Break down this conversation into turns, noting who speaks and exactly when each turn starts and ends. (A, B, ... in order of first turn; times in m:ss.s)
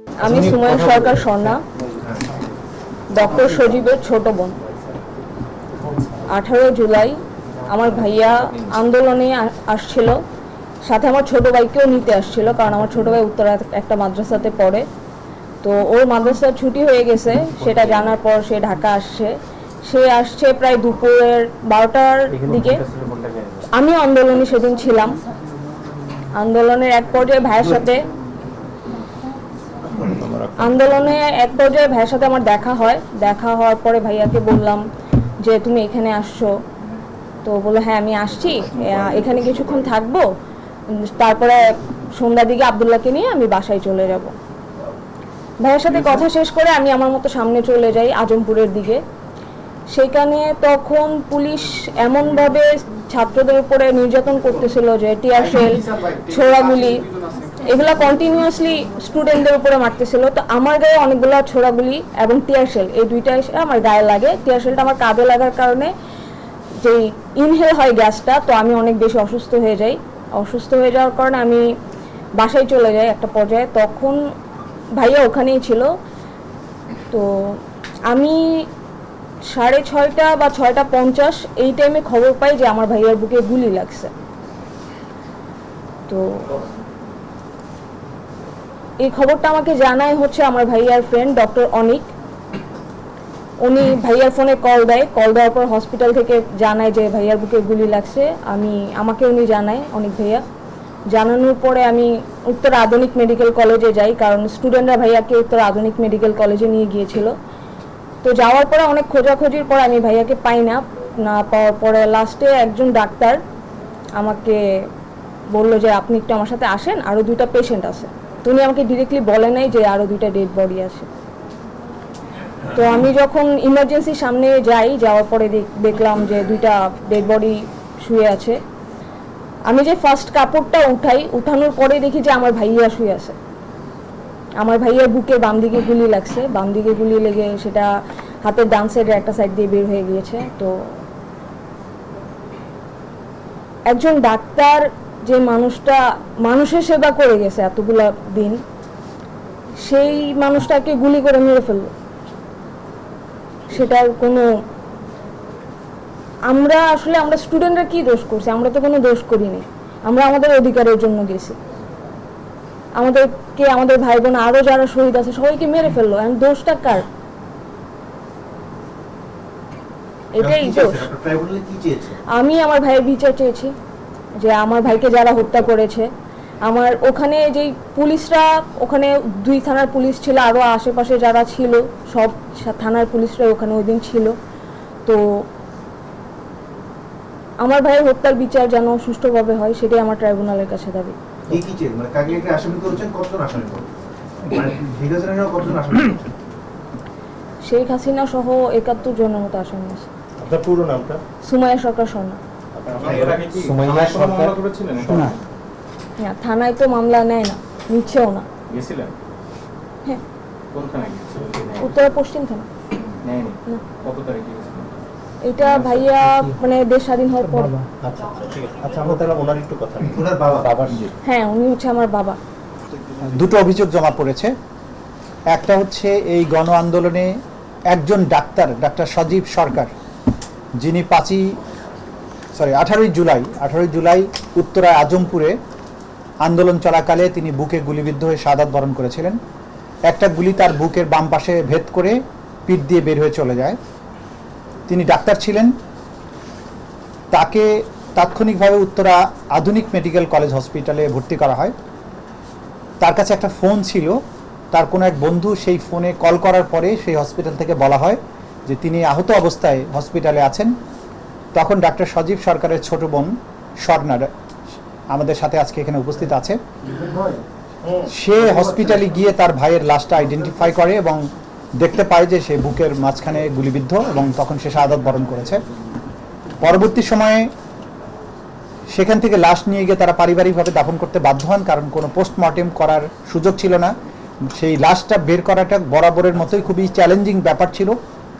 0:00.2-0:01.6 A
0:00.2-0:01.5 B
0:03.1-0:04.6 A
0:06.3-0:10.2 A
0:10.8-0:14.8 A
0:15.6-0:19.3 A
0:19.8-0:22.8 A
0:22.4-0:23.6 C
0:23.7-0:25.2 A
0:26.4-0:28.0 A
0:30.2-0:30.5 D
0:30.6-0:34.8 A
0:35.4-0:36.5 A
0:37.4-0:40.2 A
0:41.0-0:44.3 A
0:45.6-0:49.0 A
0:49.9-0:57.0 A
0:57.6-1:05.9 A
1:06.8-1:11.6 A
1:12.4-1:14.2 A
1:15.0-1:15.9 A
1:17.1-1:17.6 A
1:18.1-1:18.6 A
1:19.5-1:24.1 A
1:26.1-1:26.4 A
1:29.0-1:32.1 A
1:33.6-1:40.4 A
1:41.1-1:47.3 A
1:48.2-1:53.4 A
1:54.2-1:54.6 A
1:55.5-2:01.1 A
2:02.7-2:08.6 A
2:09.7-2:13.4 A
2:14.6-2:20.8 A
2:23.9-2:28.6 A
2:29.8-2:31.9 A
2:33.7-2:34.5 A
2:36.5-2:41.6 A
2:43.0-2:47.0 A
2:50.3-2:51.1 A
2:50.4-2:52.2 E
2:52.3-2:53.7 A
2:54.4-2:56.1 A
2:56.6-3:04.3 A
3:05.0-3:05.4 A
3:07.6-3:11.2 A
3:11.5-3:13.9 E
3:14.4-3:16.3 E
3:17.6-3:20.1 A
3:20.4-3:21.2 C
3:21.4-3:22.4 A
3:22.7-3:24.6 C
3:22.9-3:25.4 D
3:26.2-3:28.5 A
3:28.7-3:29.1 D
3:30.7-3:31.9 D
3:31.8-3:32.7 A
3:33.2-3:35.0 D
3:35.4-3:37.8 A
3:35.6-3:36.1 D
3:38.0-3:41.1 C
3:39.0-3:39.3 E
3:40.1-3:40.7 E
3:41.2-3:42.4 A
3:43.3-3:44.5 B
3:45.5-3:47.3 B
3:47.9-3:49.9 B
3:50.8-3:51.5 B
3:52.5-3:55.5 B
3:56.4-3:59.4 B
4:00.1-4:02.1 B
4:02.7-4:03.8 B
4:04.9-4:05.7 B
4:07.3-4:11.7 B
4:13.0-4:14.2 B
4:14.7-4:20.7 B
4:21.5-4:24.3 B
4:25.1-4:26.6 B
4:27.0-4:29.1 C
4:28.1-4:31.2 B
4:31.8-4:35.6 B
4:36.6-4:37.5 B
4:38.9-4:43.9 B
4:44.5-4:48.0 B